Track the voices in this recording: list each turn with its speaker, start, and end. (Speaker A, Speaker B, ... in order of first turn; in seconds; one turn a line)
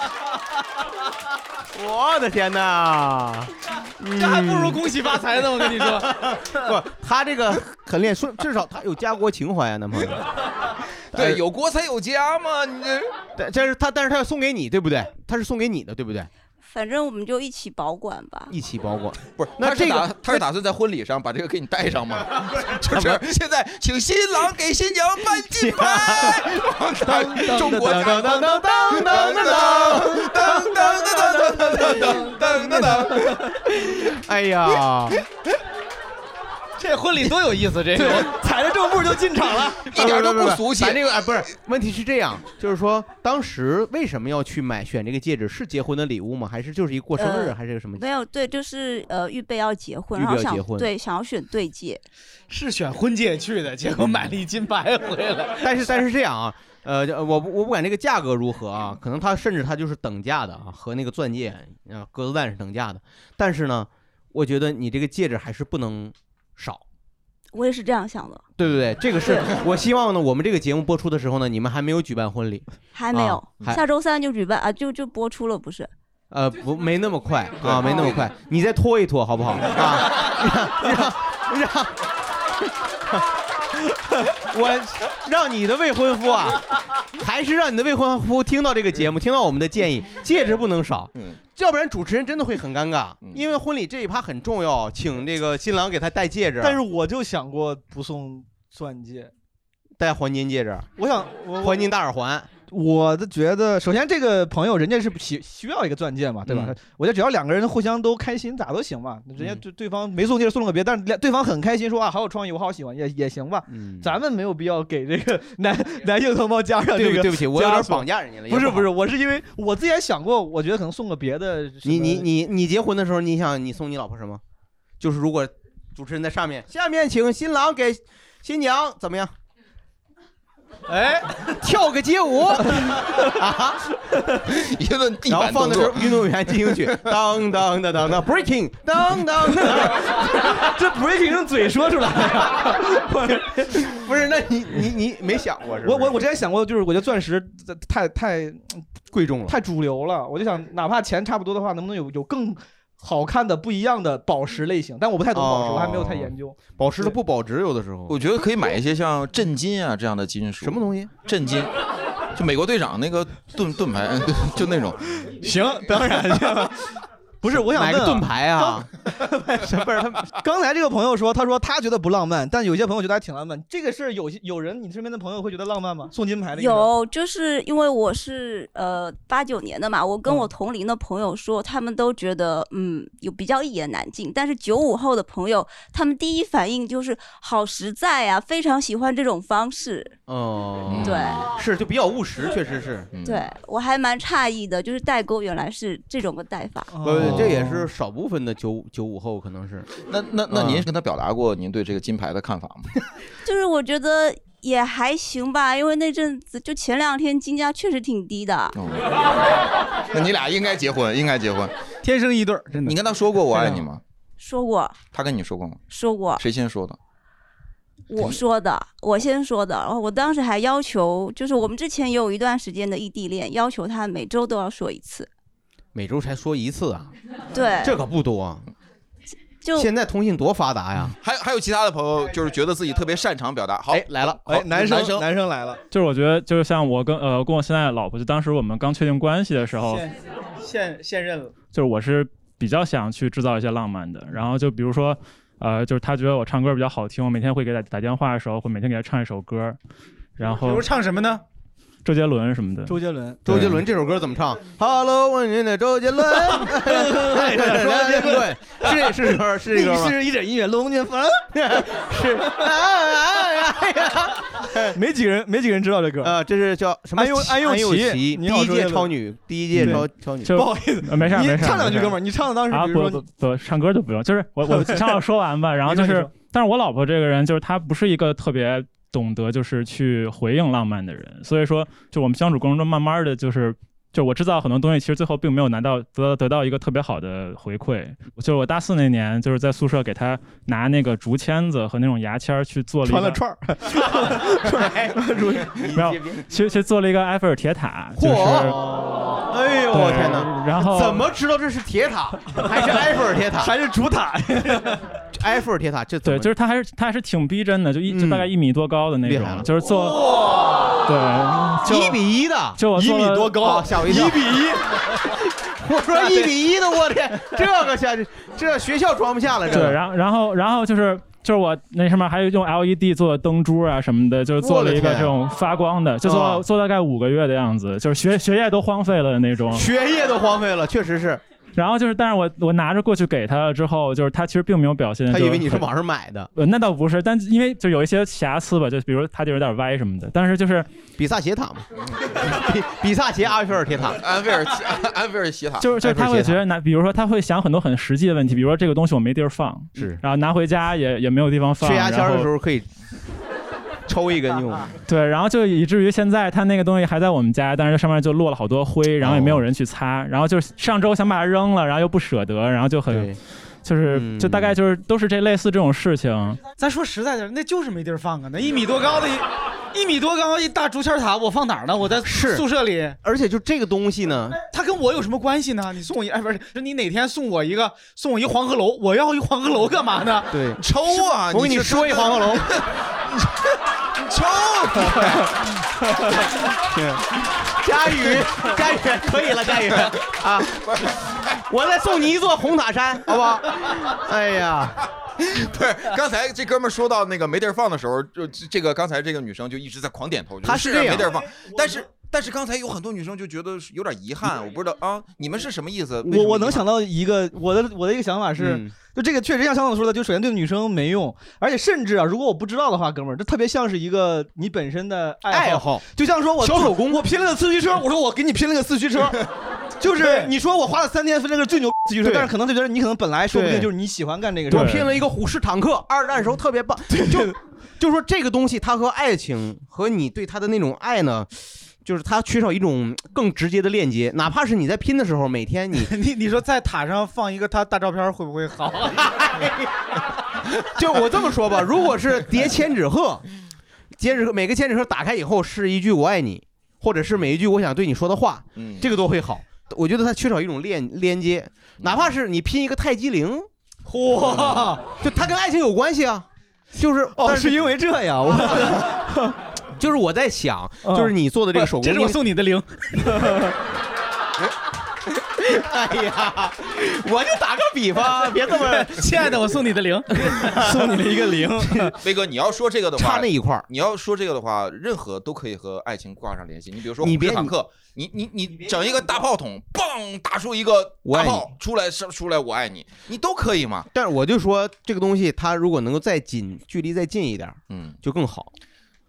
Speaker A: 1.7-10.2
Speaker B: 4.1-6.1
Speaker A: 11.1-11.4
Speaker C: 11.1-13.1
Speaker A: 13.4-16.3
Speaker D: 16.6-18.5
Speaker A: 18.5-20.4
Speaker C: 19.4-33.4
Speaker A: 22.9-23.2
Speaker A: 25.4-33.0
Speaker E: 27.1-28.5
Speaker A: 34.0-35.2
Speaker B: 36.8-38.3
Speaker E: 37.9-39.9
Speaker A: 39.9-48.0
Speaker C: 39.9-41.1
Speaker D: 47.2-52.0
Speaker A: 50.1-50.9
Speaker B: 52.5-55.7
Speaker A: 55.6-66.8
Speaker D: 67.5-68.4
Speaker A: 68.6-73.8
Speaker D: 72.9-75.9
Speaker A: 76.3-81.9
Speaker C: 77.6-78.3
Speaker A: 84.5-96.8
Speaker C: 91.1-91.4
Speaker E: 96.6-99.3
Speaker A: 100.0-100.9
Speaker E: 101.0-101.9
Speaker A: 101.6-102.5
Speaker E: 102.7-122.3
Speaker A: 106.5-106.7
Speaker A: 113.7-114.1
Speaker A: 116.9-118.9
Speaker A: 121.8-124.4
Speaker A: 125.0-129.3
Speaker A: 131.6-133.8
Speaker C: 134.5-137.1
Speaker A: 135.2-140.0
Speaker E: 139.7-143.8
Speaker A: 143.7-146.2
Speaker E: 145.8-148.8
Speaker A: 149.1-149.6
Speaker E: 149.5-157.1
Speaker A: 155.3-158.2
Speaker C: 158.1-161.7
Speaker A: 160.6-161.1
Speaker C: 162.3-165.0
Speaker E: 165.4-176.9
Speaker A: 167.5-168.9
Speaker A: 169.6-170.3
Speaker D: 176.6-190.2
Speaker A: 190.3-193.1
Speaker C: 190.9-191.4
Speaker D: 191.0-191.4
Speaker C: 193.1-193.5
Speaker D: 193.2-196.9
Speaker E: 196.9-197.8
Speaker A: 197.0-199.9
Speaker C: 197.2-197.6
Speaker C: 200.1-202.9
Speaker A: 200.5-200.8
Speaker D: 203.4-208.7
Speaker C: 208.7-209.2
Speaker C: 210.1-211.7
Speaker B: 212.0-213.0
Speaker C: 212.8-214.0
Speaker B: 213.6-213.8
Speaker D: 214.4-215.0
Speaker C: 215.1-215.8
Speaker D: 215.9-216.4
Speaker C: 216.4-217.0
Speaker D: 218.1-225.3
Speaker A: 225.9-227.1
Speaker D: 227.5-228.0
Speaker A: 227.8-228.7
Speaker D: 229.6-229.9
Speaker A: 229.7-231.2
Speaker C: 231.2-235.2
Speaker A: 233.9-234.5
Speaker E: 234.4-235.8
Speaker F: 235.9-240.1
Speaker B: 239.9-241.6
Speaker F: 241.7-249.8
Speaker F: 250.4-250.9
Speaker B: 250.4-251.4
Speaker F: 252.0-252.9
Speaker E: 252.8-253.7
Speaker A: 253.4-260.1
Speaker E: 256.3-259.1
Speaker E: 259.7-261.5
Speaker A: 261.5-265.0
Speaker E: 264.9-266.3
Speaker A: 266.2-270.6
Speaker E: 267.2-269.1
Speaker F: 269.7-293.4
Speaker E: 269.8-273.2
Speaker E: 274.6-275.2
Speaker E: 275.9-276.3
Speaker E: 293.0-295.8
Speaker A: 293.9-296.4
Speaker F: 295.9-298.8
Speaker A: 298.1-303.7
Speaker F: 299.9-301.3
Speaker E: 303.6-305.0
Speaker A: 305.3-306.5
Speaker F: 306.2-310.2
Speaker A: 308.1-308.5
Speaker A: 309.2-309.7
Speaker F: 311.1-312.2
Speaker A: 311.8-312.8
Speaker F: 312.8-313.8
Speaker E: 312.9-315.1
Speaker A: 313.5-314.6
Speaker A: 315.2-320.0
Speaker E: 316.2-316.4
Speaker F: 319.7-329.9
Speaker A: 324.6-325.4
Speaker A: 326.2-326.6
Speaker A: 329.7-331.4
Speaker F: 331.8-335.9
Speaker A: 335.3-336.5
Speaker F: 336.5-340.9
Speaker A: 341.2-344.2
Speaker C: 344.2-345.9
Speaker F: 345.8-352.5
Speaker A: 346.0-346.6
Speaker A: 349.9-350.2
Speaker A: 351.8-352.9
Speaker A: 354.1-354.9
Speaker F: 355.1-363.3
Speaker A: 359.2-359.6
Speaker A: 363.1-363.4
Speaker F: 363.8-366.6
Speaker A: 364.0-364.8
Speaker B: 366.8-373.2
Speaker A: 372.2-372.6
Speaker A: 373.2-374.6
Speaker B: 374.7-380.6
Speaker A: 380.5-382.7
Speaker C: 380.8-382.9
Speaker C: 384.2-385.5
Speaker A: 386.9-395.0
Speaker C: 395.4-406.8
Speaker A: 400.6-401.3
Speaker E: 406.2-419.4
Speaker A: 408.6-408.9
Speaker A: 415.5-416.0
Speaker A: 416.6-417.2
Speaker E: 420.0-425.0
Speaker A: 422.2-422.5
Speaker A: 423.5-423.9
Speaker A: 424.7-431.5
Speaker F: 424.7-425.1
Speaker E: 427.1-427.6
Speaker A: 432.0-436.1
Speaker B: 436.0-439.7
Speaker A: 439.4-439.7
Speaker A: 440.9-443.4
Speaker A: 444.2-453.7
Speaker C: 448.8-449.1
Speaker C: 452.0-452.3
Speaker E: 454.1-455.0
Speaker A: 455.2-457.9
Speaker E: 457.3-459.5
Speaker A: 458.5-459.0
Speaker A: 459.9-462.4
Speaker E: 461.0-461.3
Speaker B: 462.0-462.8
Speaker E: 463.2-463.7
Speaker A: 465.6-469.6
Speaker B: 468.8-470.7
Speaker A: 470.5-470.9
Speaker E: 470.6-472.1
Speaker C: 472.2-484.1
Speaker A: 473.1-473.9
Speaker A: 477.2-477.7
Speaker A: 481.3-481.7
Speaker A: 484.1-488.7
Speaker C: 487.9-488.2